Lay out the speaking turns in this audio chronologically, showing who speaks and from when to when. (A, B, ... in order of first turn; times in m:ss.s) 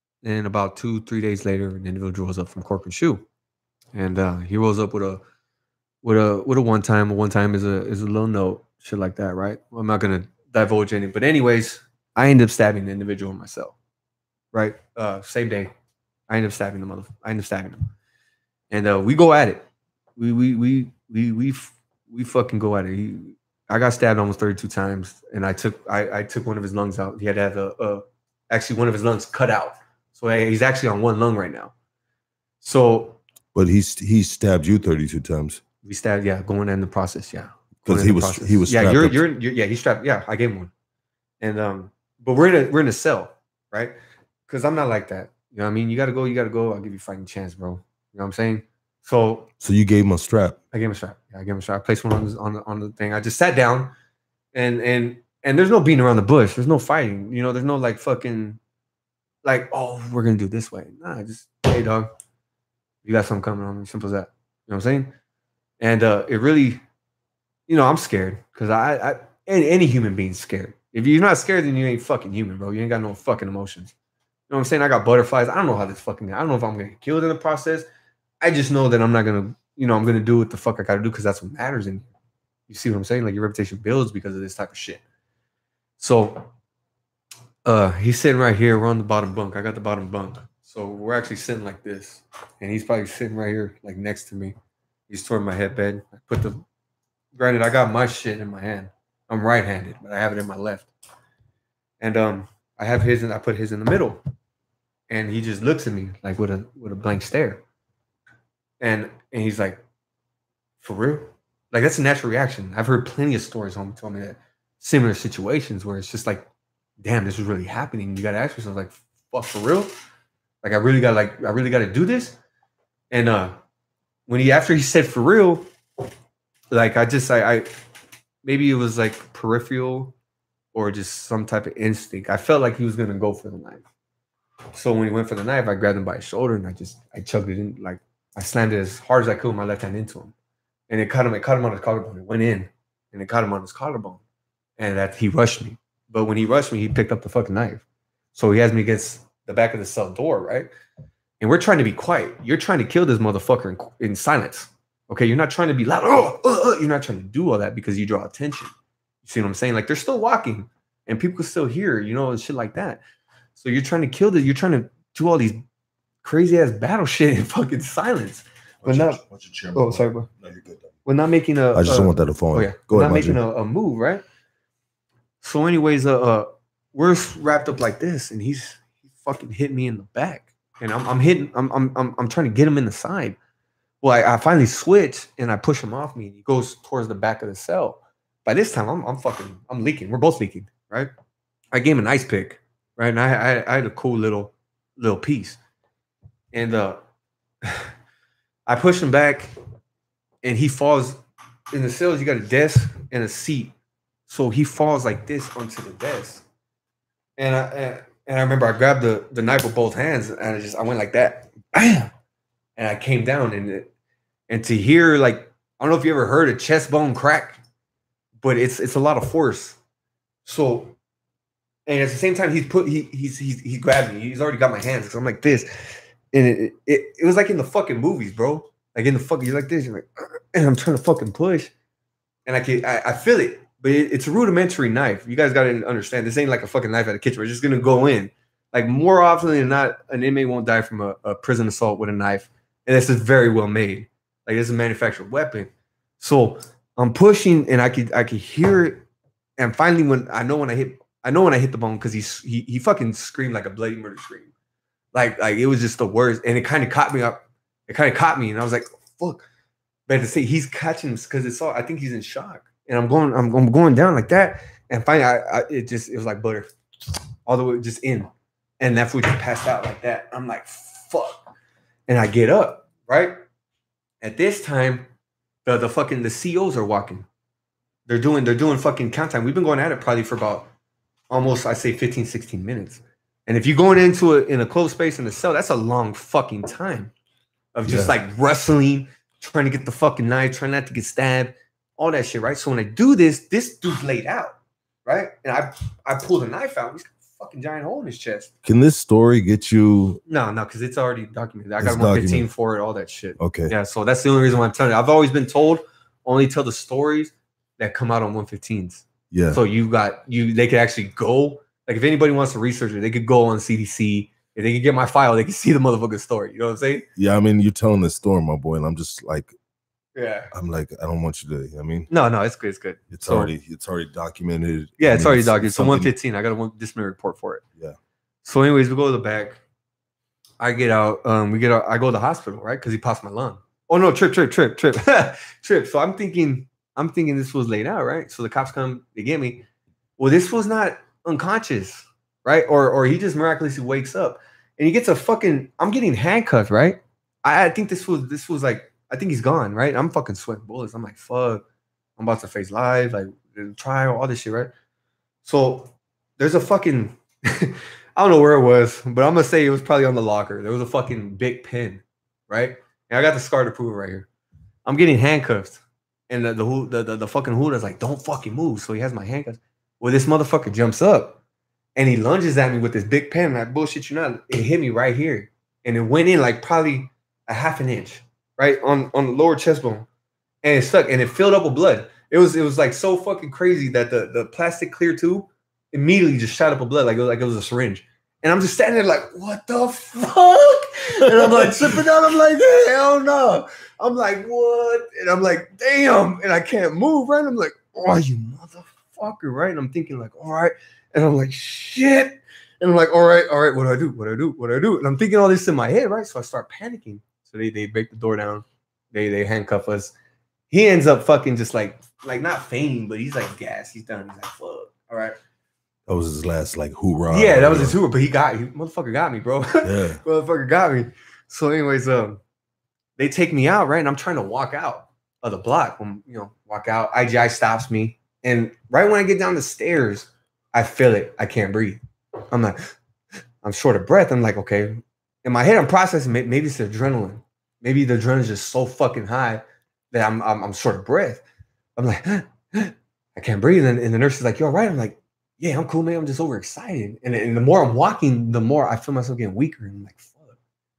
0:00.2-0:03.2 A
0:03.9-0:05.2 A
0:06.0-0:13.8 A
0:14.5-0:15.7 A
0:16.3-0:17.9 A
0:18.7-0:19.6 A
0:20.2-0:31.7 A
0:32.6-0:33.2 A
0:33.5-0:35.6 B
0:35.8-0:40.7 A
0:37.8-0:39.2 B
0:41.4-0:43.9 A
0:44.5-0:49.5 A
0:49.6-0:50.6 B
0:50.7-0:53.9 A
0:54.5-0:58.6 A
0:59.4-1:02.1 A
1:03.0-1:05.1 A
1:05.8-1:06.8 A
1:07.7-1:13.9 A
1:14.5-1:17.9 A
1:18.4-1:22.1 A
1:22.7-1:25.0 A
1:26.0-1:26.5 A
1:27.6-1:34.5 A
1:35.1-1:36.6 A
1:37.3-1:40.9 A
1:42.0-1:44.2 A
1:45.1-1:47.6 A
1:48.8-1:49.8 A
1:50.8-1:56.5 A
1:57.0-1:59.9 A
2:00.6-2:02.4 A
2:03.1-2:03.5 A
2:04.3-2:05.6 A
2:06.7-2:07.6 A
2:08.4-2:10.2 A
2:10.7-2:13.8 A
2:14.7-2:20.3 A
2:20.9-2:24.2 A
2:24.8-2:30.7 A
2:31.4-2:38.7 A
2:39.2-2:43.0 A
2:43.5-2:45.6 A
2:46.2-2:49.2 A
2:48.8-2:50.9 B
2:49.7-2:50.3 A
2:51.0-2:54.2 A
2:51.7-2:53.4 B
2:55.4-3:03.4 A
3:04.0-3:11.1 A
3:11.7-3:15.6 A
3:16.5-3:17.0 A
3:17.6-3:17.9 A
3:18.7-3:19.5 A
3:20.4-3:21.2 A
3:21.7-3:23.7 A
3:24.3-3:26.4 A
3:27.4-3:32.1 A
3:32.8-3:33.9 A
3:34.5-3:37.6 A
3:38.4-3:39.8 A
3:40.4-3:41.0 A
3:41.9-3:45.7 A
3:46.3-3:51.7 A
3:52.4-4:09.1 A
4:09.6-4:14.5 A
4:15.1-4:19.4 A
4:20.1-4:26.7 A
4:27.4-4:31.4 A
4:32.1-4:33.4 A
4:34.2-4:35.1 A
4:35.6-4:37.2 A
4:38.1-4:40.7 A
4:41.3-4:47.1 A
4:47.7-4:58.5 A
4:47.8-4:48.1 B
4:58.6-5:00.2 B
5:00.3-5:17.1 A
5:01.8-5:02.5 B
5:03.4-5:03.7 B
5:09.3-5:09.6 B
5:17.2-5:19.5 B
5:20.2-5:20.5 A
5:20.5-5:22.1 B
5:22.1-5:23.5 A
5:23.1-5:26.1 B
5:25.0-5:27.6 A
5:28.4-5:29.6 A
5:30.6-5:39.6 A
5:40.2-5:51.6 A
5:52.2-5:54.7 A
5:55.4-6:04.3 A
6:04.8-6:11.4 A
6:12.0-6:20.1 A
6:20.6-6:50.1 A
6:50.7-6:55.3 A
6:56.1-6:58.0 B
6:57.3-7:02.4 A
6:59.8-7:00.2 B
7:03.2-7:12.0 A
7:12.5-7:12.8 A
7:13.6-7:21.4 A
7:22.0-7:30.6 A